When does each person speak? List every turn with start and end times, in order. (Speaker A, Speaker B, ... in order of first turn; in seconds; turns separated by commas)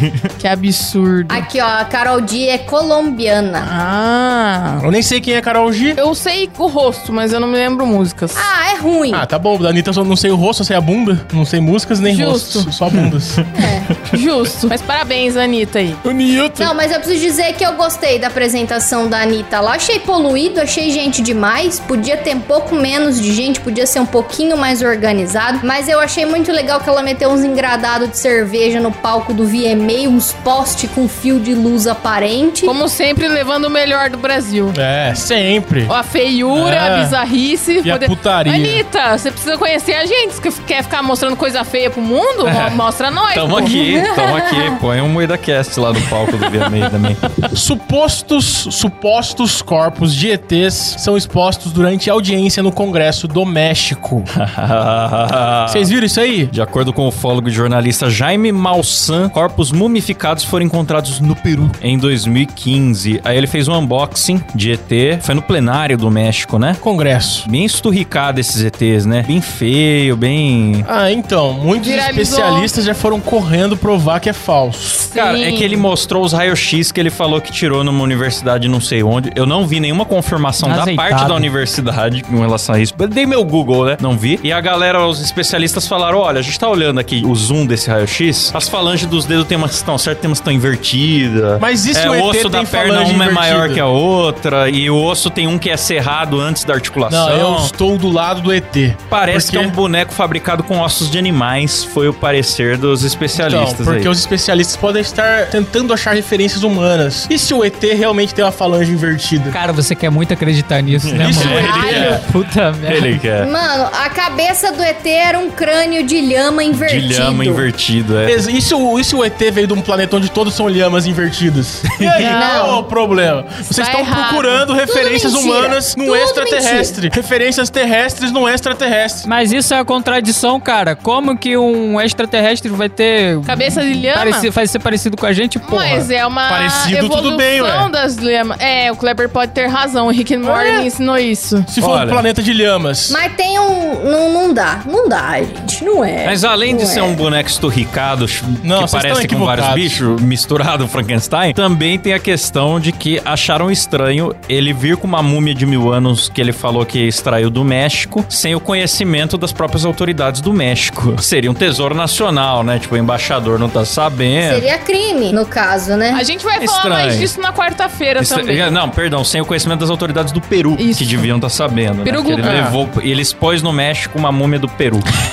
Speaker A: 0.4-1.5, Speaker B: 1.3-3.7, Speaker A: 3.6-4.8, Speaker C: 4.8-6.0, Speaker A: 6.0-8.5, Speaker B: 8.3-9.2, Speaker C: 9.1-13.4, Speaker A: 12.1-12.7, Speaker D: 12.9-13.5, Speaker B: 13.6-13.9, Speaker A: 14.1-16.0, Speaker C: 16.1-16.7, Speaker B: 16.6-32.8, Speaker A: 32.6-34.8, Speaker C: 34.7-35.9, Speaker A: 35.9-43.9, Speaker C: 36.5-37.2, Speaker C: 37.8-38.8, Speaker D: 42.4-47.2, Speaker B: 43.9-44.6, Speaker C: 47.5-54.3, Speaker D: 54.3-55.9, Speaker C: 55.7-56.5, Speaker D: 56.5-66.8, Speaker C: 66.8-67.5, Speaker D: 67.5-70.9, Speaker C: 70.8-75.0, Speaker A: 71.8-72.7, Speaker A: 75.0-75.9, Speaker D: 75.1-97.7, Speaker E: 80.6-81.5, Speaker C: 91.6-93.8, Speaker C: 97.1-99.8, Speaker D: 99.1-104.1, Speaker C: 103.3-109.6, Speaker E: 109.5-113.2, Speaker D: 111.0-112.2, Speaker C: 111.2-112.2, Speaker D: 112.9-113.5, Speaker B: 113.4-117.7, Speaker D: 116.7-118.4, Speaker C: 118.2-129.2, Speaker A: 122.2-122.5, Speaker B: 122.3-122.8, Speaker A: 123.6-124.7, Speaker B: 124.8-127.0, Speaker E: 129.2-136.1, Speaker A: 133.5-134.5, Speaker A: 135.6-141.7, Speaker C: 136.5-137.9, Speaker C: 140.4-140.9, Speaker C: 141.7-143.2, Speaker D: 141.8-142.2, Speaker B: 143.1-147.2, Speaker D: 146.2-164.7, Speaker C: 148.6-150.0, Speaker B: 164.4-166.2, Speaker A: 166.1-168.8, Speaker D: 166.6-167.3, Speaker D: 168.2-175.1, Speaker A: 170.8-171.3, Speaker A: 172.0-172.4, Speaker C: 172.4-172.8